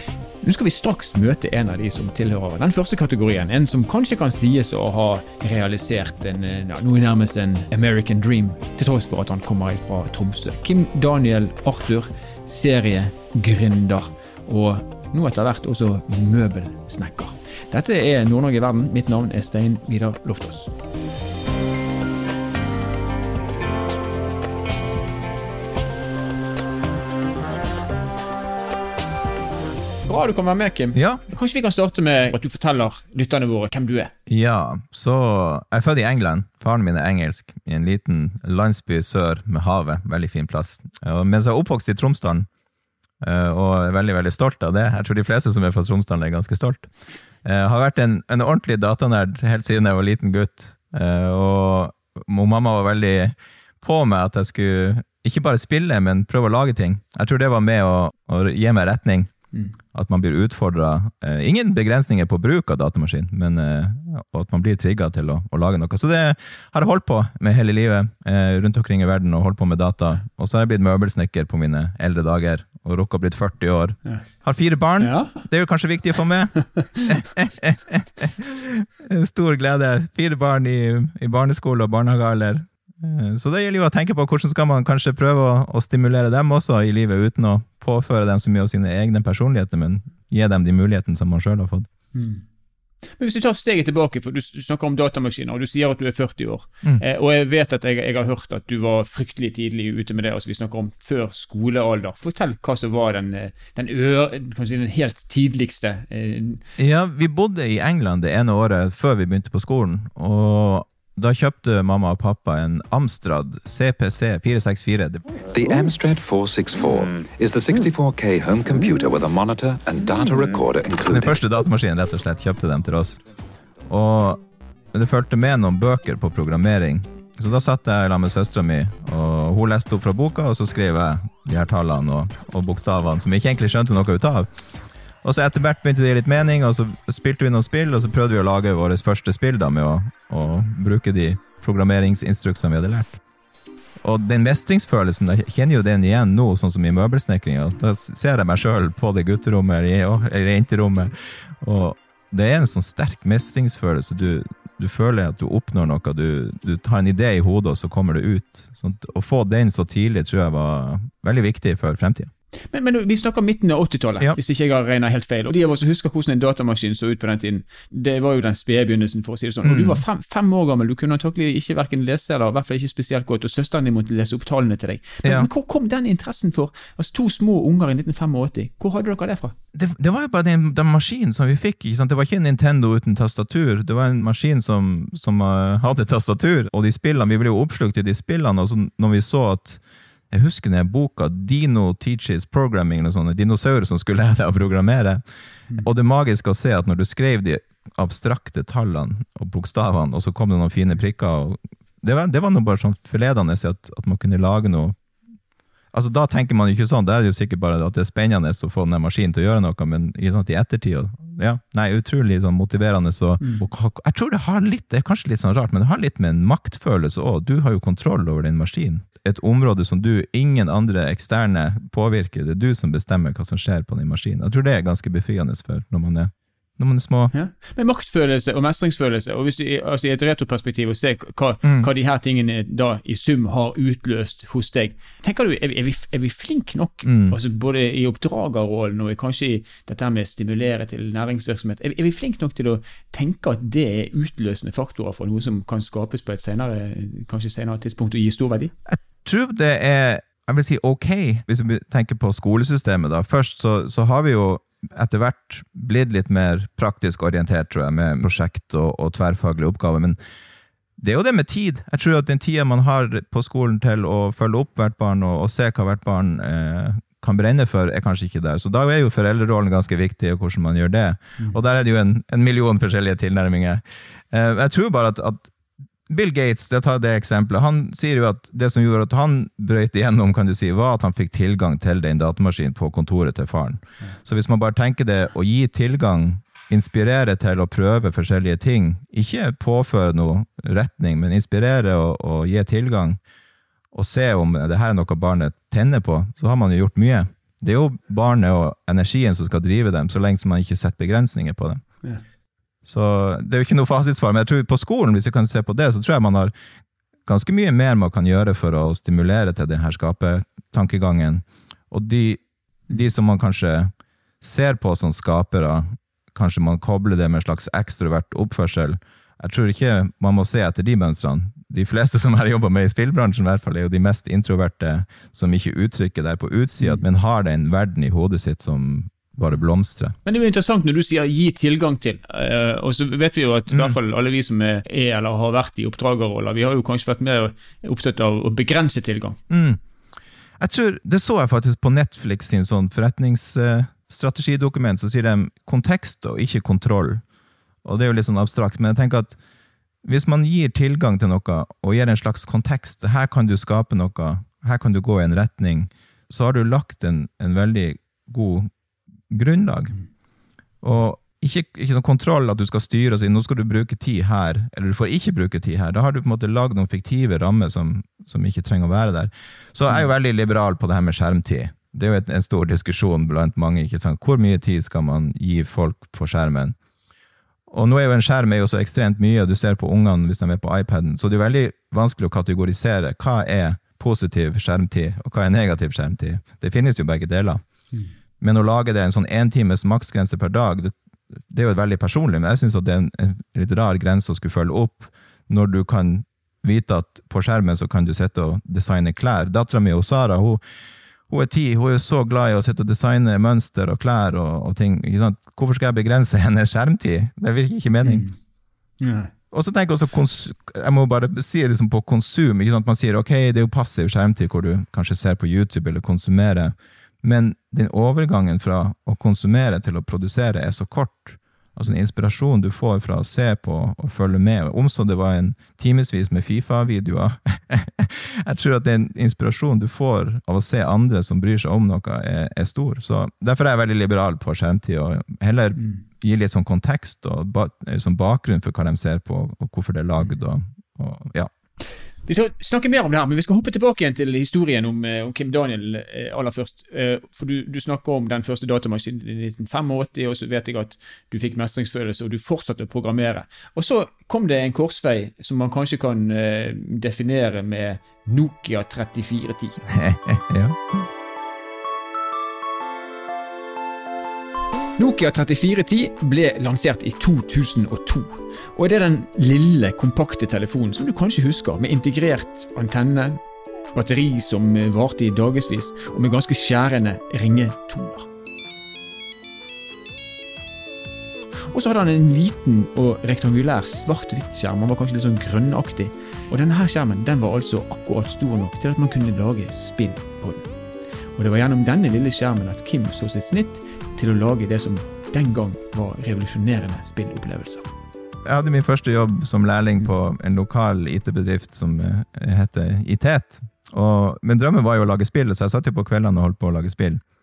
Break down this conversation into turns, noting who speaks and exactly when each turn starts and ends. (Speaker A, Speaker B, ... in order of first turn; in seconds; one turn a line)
Speaker A: 0.4-20.7
Speaker A: 30.1-34.1
Speaker B: 30.9-31.2
Speaker B: 34.3-42.5
Speaker B: 43.2-46.9
Speaker B: 47.4-59.3
Speaker B: 59.9-91.9
Speaker A: 75.0-75.4
Speaker A: 92.1-92.4
Speaker A: 93.1-106.6
Speaker B: 106.8-115.2
Speaker C: 115.5-121.3
Speaker B: 121.1-123.2
Speaker B: 123.8-134.5
Speaker B: 135.2-143.2
Speaker B: 144.0-162.3
Speaker A: 162.7-179.6
Speaker B: 169.6-170.0
Speaker B: 175.2-175.5
Speaker B: 179.7-195.2
Speaker B: 195.8-204.9
Speaker B: 205.9-227.3
Speaker A: 213.4-213.6
Speaker A: 227.3-248.7
Speaker B: 231.6-231.9
Speaker B: 237.0-237.4
Speaker B: 248.9-260.2
Speaker B: 261.0-275.5
Speaker B: 276.1-293.2
Speaker B: 293.9-301.8
Speaker B: 302.8-306.5
Speaker B: 307.2-330.1
Speaker A: 330.2-339.4
Speaker B: 333.7-333.9
Speaker B: 339.5-339.8
Speaker B: 340.6-347.2
Speaker B: 347.8-349.4
Speaker B: 350.0-358.7
Speaker B: 359.3-359.9
Speaker B: 360.8-376.8
Speaker B: 377.7-387.6
Speaker B: 388.4-390.9
Speaker B: 391.5-400.6
Speaker B: 401.3-408.3
Speaker A: 408.0-408.3
Speaker A: 409.0-409.3
Speaker B: 409.5-441.5
Speaker A: 435.8-436.0
Speaker A: 442.2-459.8
Speaker B: 459.9-461.0
Speaker A: 465.0-473.4
Speaker A: 473.9-478.3
Speaker A: 481.7-490.7
Speaker A: 491.4-497.9
Speaker B: 498.4-507.2